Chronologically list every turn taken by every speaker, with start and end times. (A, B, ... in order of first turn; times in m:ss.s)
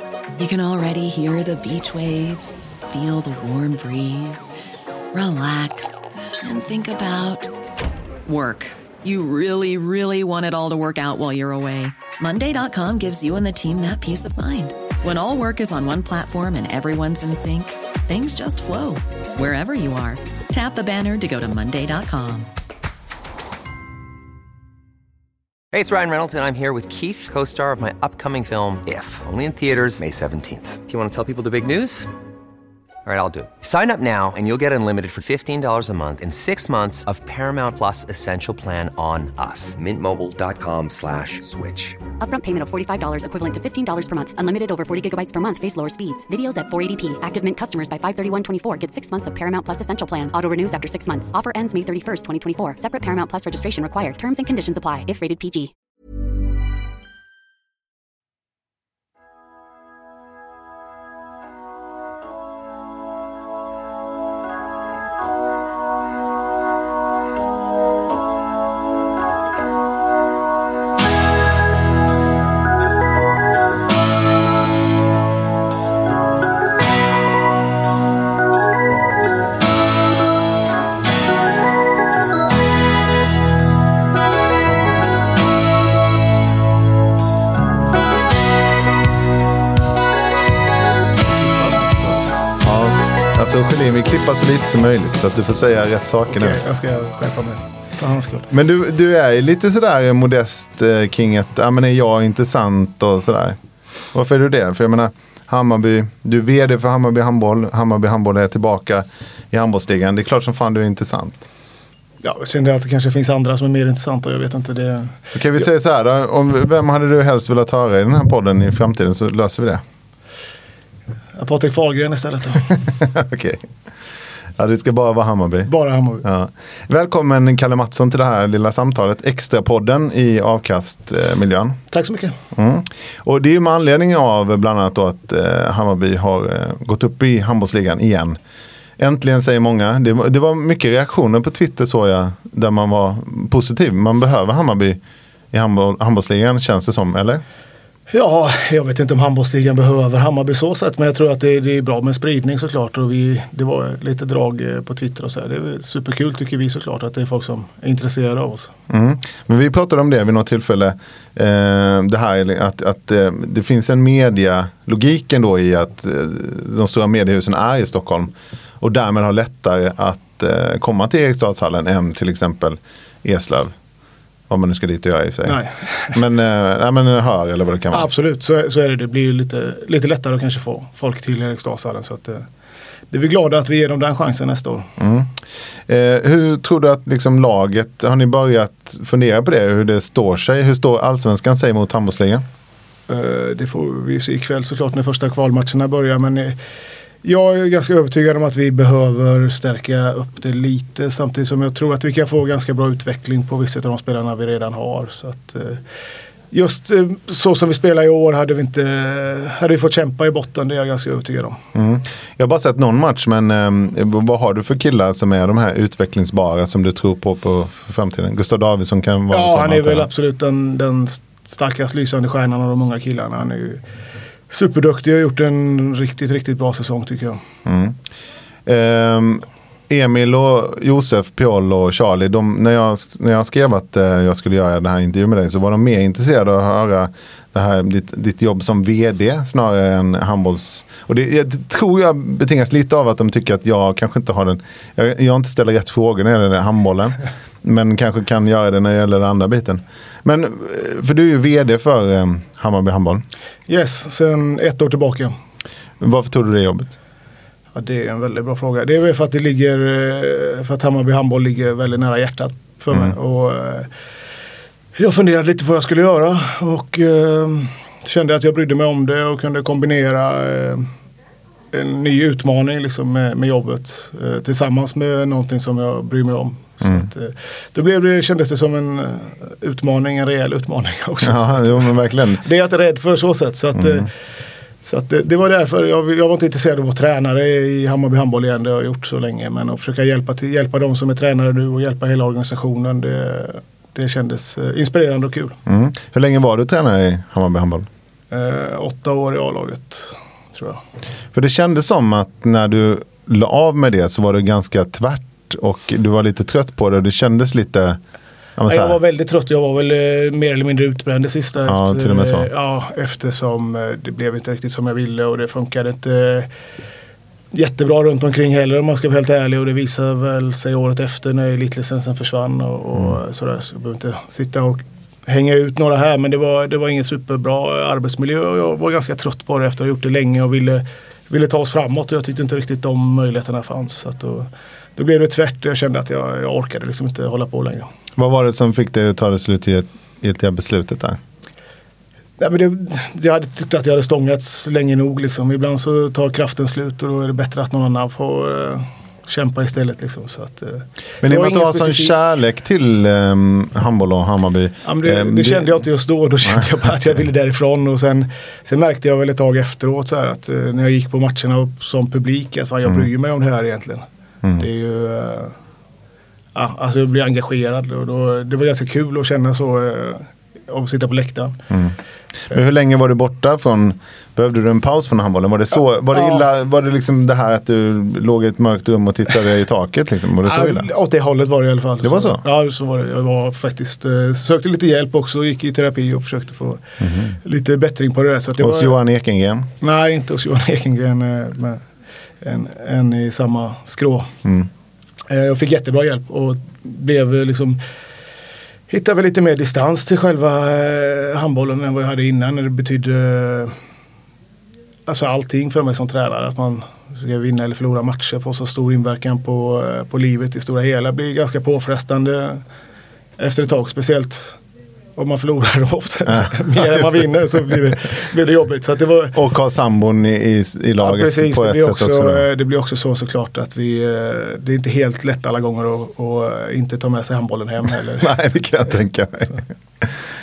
0:00.4-0:04.5 A
0:05.1-0:07.5 A
0:08.2-0:22.5 A
0:25.7-0:32.1 B
0:33.0-0:42.0 B
0:42.2-0:55.7 C
1:31.2-1:32.4 D
1:32.6-1:36.6 E
1:36.3-1:38.5 D
1:38.5-1:43.6 E
1:44.1-1:51.5 E
1:52.2-1:55.2 D
1:55.3-1:59.8 E
2:01.4-2:02.7 D
2:03.0-2:03.6 E
2:04.6-2:05.7 E
2:05.7-2:06.2 D
2:06.2-2:11.8 E
2:11.9-2:12.3 D
2:12.5-2:18.4 E
2:19.0-2:25.0 E
2:25.5-2:27.4 E
2:28.1-2:38.7 D
2:38.9-2:53.8 E
2:54.5-2:58.1 E
2:55.4-2:56.2 D
2:57.9-3:02.5 D
3:03.1-3:04.9 D
3:05.0-3:05.3 E
3:05.9-3:12.4 E
3:13.1-3:16.6 D
3:17.2-3:25.8 D
3:26.5-3:31.6 D
3:31.8-3:40.1 E
3:39.3-3:43.8 D
3:44.5-3:47.4 D
3:47.6-3:48.0 E
3:48.6-4:13.2 E
4:13.7-4:15.3 D
4:16.0-4:17.0 E
4:17.8-4:23.9 D
4:25.0-4:30.9 D
4:31.7-4:44.1 D
4:41.2-4:42.4 E
4:43.8-4:44.0 E
4:44.8-4:55.6 D
4:55.7-4:57.9 E
4:58.3-5:00.8 D
5:01.3-5:08.0 E
5:08.6-5:09.0 E
5:08.7-5:16.5 D
5:11.7-5:12.5 E
5:17.5-5:37.9 D
5:38.2-5:41.2 E
5:42.4-5:52.2 D
5:51.2-5:55.8 E
5:54.8-6:05.6 D
6:06.6-6:11.6 D
6:12.5-6:20.9 E
6:16.1-6:16.5 D
6:20.4-6:29.0 D
6:22.0-6:22.4 E
6:27.0-6:27.4 E
6:28.6-6:29.7 E
6:29.8-6:31.8 D
6:32.4-6:34.3 D
6:35.3-6:37.8 D
6:38.9-6:43.8 D
6:45.1-6:52.6 D
6:53.4-6:54.6 D
6:55.2-6:59.4 D
6:56.3-6:57.8 E
6:59.3-7:02.4 E
7:01.0-7:08.3 D
7:08.2-7:10.1 E